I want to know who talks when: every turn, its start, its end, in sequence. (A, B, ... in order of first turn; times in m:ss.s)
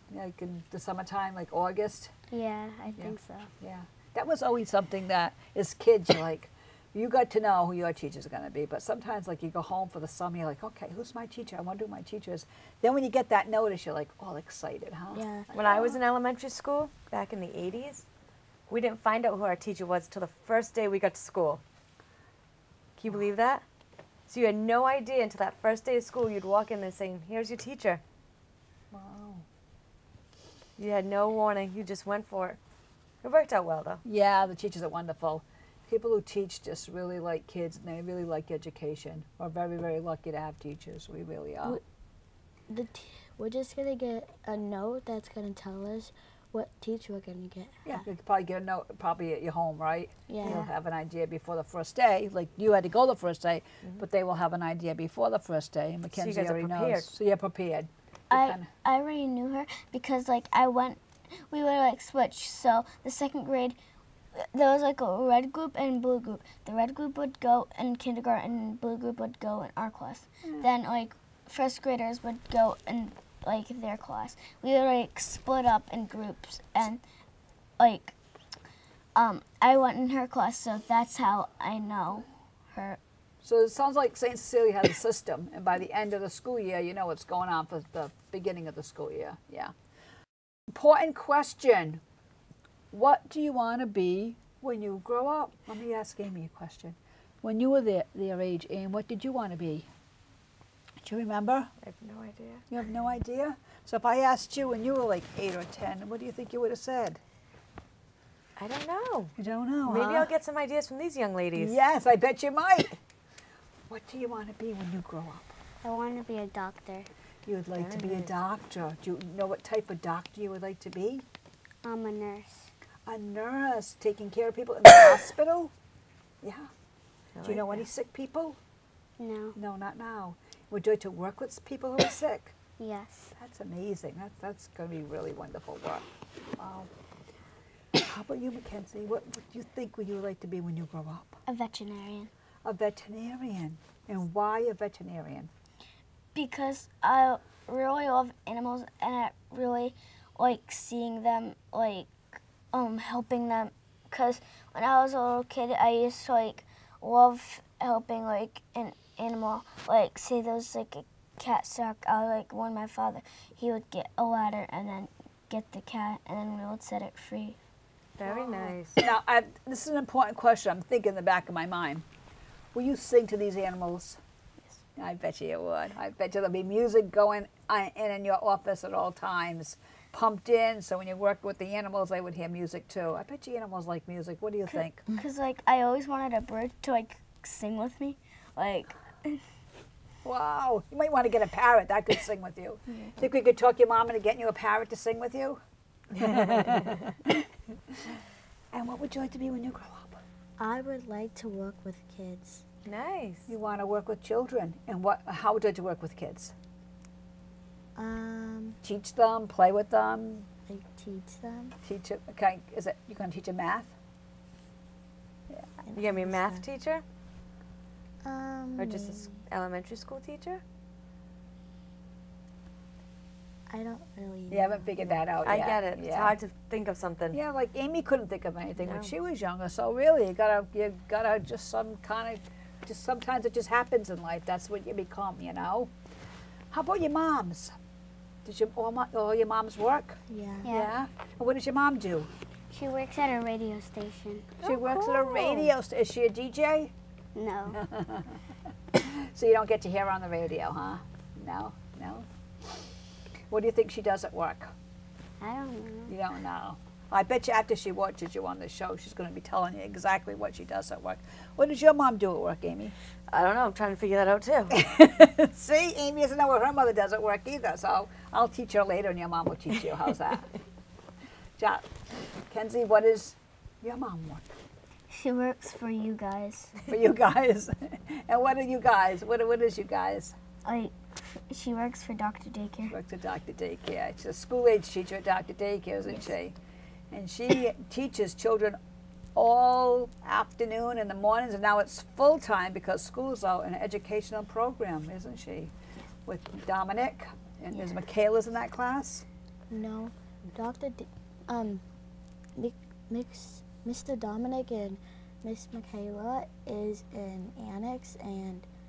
0:00.1-0:02.1 A
0:02.3-0:03.5 B
0:03.0-0:16.0 A
0:15.1-0:15.5 C
0:15.5-0:18.1 D
0:18.7-0:21.6 D
0:23.0-0:23.6 D
0:24.3-0:28.0 D
0:28.9-0:29.5 A
0:30.8-0:32.6 D
0:33.2-0:34.0 D
0:34.0-0:41.8 A
0:42.7-0:48.0 C
0:47.8-0:58.7 A
0:50.3-0:50.7 C
0:56.1-0:57.1 D
0:58.3-1:03.8 E
1:04.4-1:17.0 E
1:17.8-1:18.1 E
1:19.2-1:23.0 E
1:23.4-1:29.7 A
1:30.7-1:32.0 A
1:32.9-1:39.9 A
1:41.0-1:41.7 A
1:41.8-1:42.7 D
1:42.7-1:47.2 A
1:48.6-1:49.3 D
1:49.4-1:50.3 A
1:49.9-1:51.8 D
1:51.6-1:53.0 A
1:53.9-1:55.5 A
1:55.8-1:57.1 B
1:57.4-2:01.2 A
1:57.8-1:58.3 D
2:01.8-2:02.7 B
2:03.1-2:05.7 A
2:06.4-2:06.7 A
2:07.4-2:07.8 D
2:07.4-2:08.6 A
2:09.2-2:09.6 B
2:09.6-2:12.5 A
2:12.8-2:13.3 B
2:13.4-2:16.1 A
2:16.6-2:16.9 A
2:18.0-2:21.4 A
2:21.5-2:22.3 E
2:22.6-2:25.5 A
2:26.3-2:47.6 E
2:48.2-2:49.0 D
2:48.2-2:52.0 A
2:52.7-2:54.2 A
2:55.0-3:05.1 A
3:04.7-3:09.4 E
3:10.2-3:18.2 A
3:16.3-3:16.9 D
3:18.7-3:20.2 A
3:20.6-3:22.6 C
3:22.8-3:23.5 D
3:23.5-3:26.6 A
3:28.0-3:28.8 C
3:28.8-3:30.5 A
3:30.7-3:31.8 C
3:31.8-3:33.9 A
3:35.8-3:36.6 C
3:36.0-3:37.0 D
3:38.2-3:39.4 C
3:38.8-3:40.6 D
3:43.7-3:45.0 C
3:44.5-3:46.4 A
3:45.4-3:47.4 D
3:47.3-3:55.9 A
3:48.8-3:49.1 D
3:56.7-3:57.8 A
3:58.4-4:02.3 A
4:00.3-4:00.7 C
4:00.6-4:00.9 B
4:02.7-4:04.6 B
4:04.6-4:05.7 D
4:04.6-4:06.9 A
4:07.4-4:07.8 B
4:07.7-4:08.4 A
4:09.0-4:12.8 A
4:13.5-4:14.7 A
4:15.4-4:16.1 B
4:16.1-4:23.0 A
4:23.3-4:24.8 D
4:24.7-4:30.5 A
4:31.6-4:31.9 A
4:32.5-4:34.5 A
4:35.1-4:36.8 E
4:36.9-4:40.4 A
4:40.6-4:43.0 E
4:42.9-4:46.6 A
4:47.1-4:48.8 A
4:49.4-4:55.7 A
4:56.3-4:59.2 A
4:59.7-5:01.8 C
5:02.6-5:08.7 C